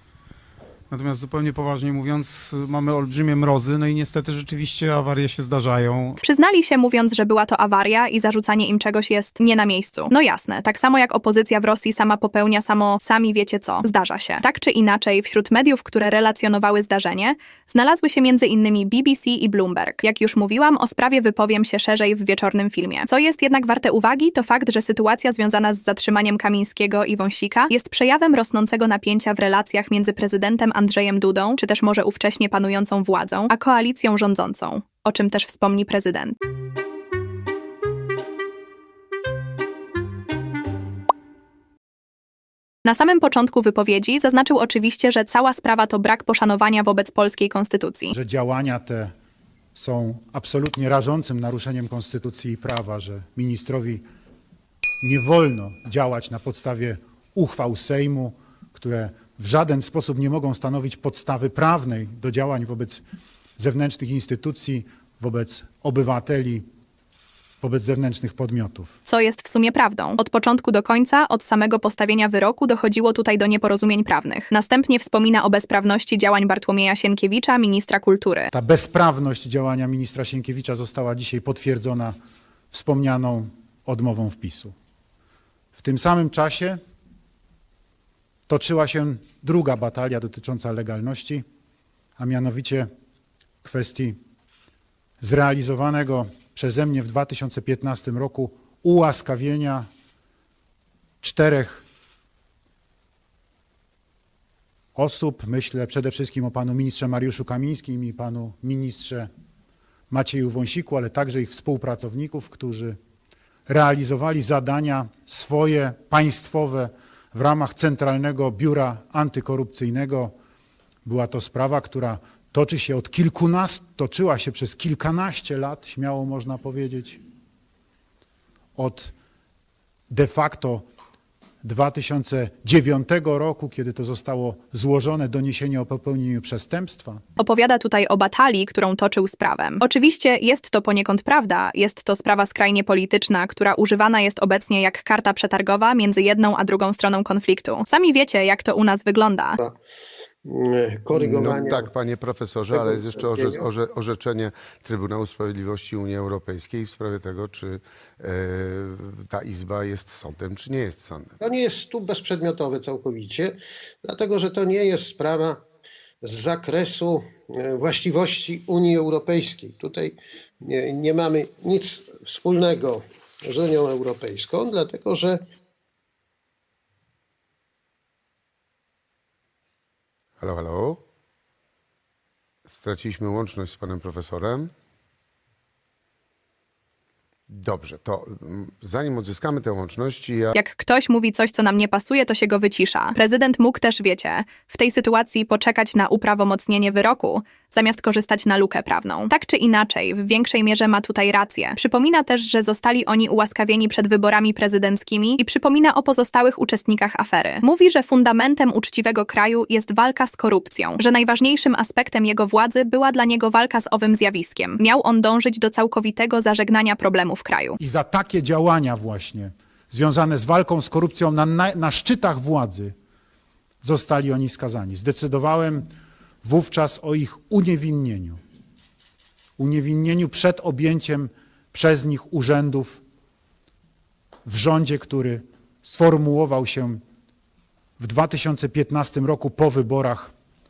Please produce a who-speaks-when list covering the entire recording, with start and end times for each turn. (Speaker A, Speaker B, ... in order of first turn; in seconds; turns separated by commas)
Speaker A: 0.9-6.2, Speaker B: 6.2-36.4, Speaker B: 42.8-48.1, Speaker C: 48.1-49.1, Speaker C: 49.7-54.0, Speaker C: 55.0-63.0, Speaker C: 63.6-66.6, Speaker C: 67.6-68.9, Speaker B: 69.1-78.5, Speaker C: 78.5-82.2, Speaker C: 82.7-84.7, Speaker C: 85.7-86.8, Speaker C: 88.5-91.4, Speaker C: 92.2-92.9, Speaker C: 93.6-94.2, Speaker C: 95.2-99.9, Speaker C: 101.2-101.8, Speaker C: 104.9-109.3, Speaker C: 110.1-113.0, Speaker C: 113.7-120.3, Speaker C: 121.0-127.2, Speaker C: 128.8-129.1, Speaker C: 130.1-130.8, Speaker C: 131.6-137.2, Speaker B: 137.4-149.6, Speaker D: 150.4-151.9, Speaker E: 151.1-161.3, Speaker D: 152.7-153.6, Speaker D: 161.4-165.6, Speaker D: 166.2-175.4, Speaker E: 180.4-181.0, Speaker E: 182.7-184.7, Speaker E: 187.5-190.6, Speaker B: 190.6-217.8, Speaker C: 217.8-222.9, Speaker C: 223.8-225.9, Speaker C: 226.4-228.4, Speaker C: 229.6-233.0, Speaker C: 234.4-237.0, Speaker C: 238.0-240.3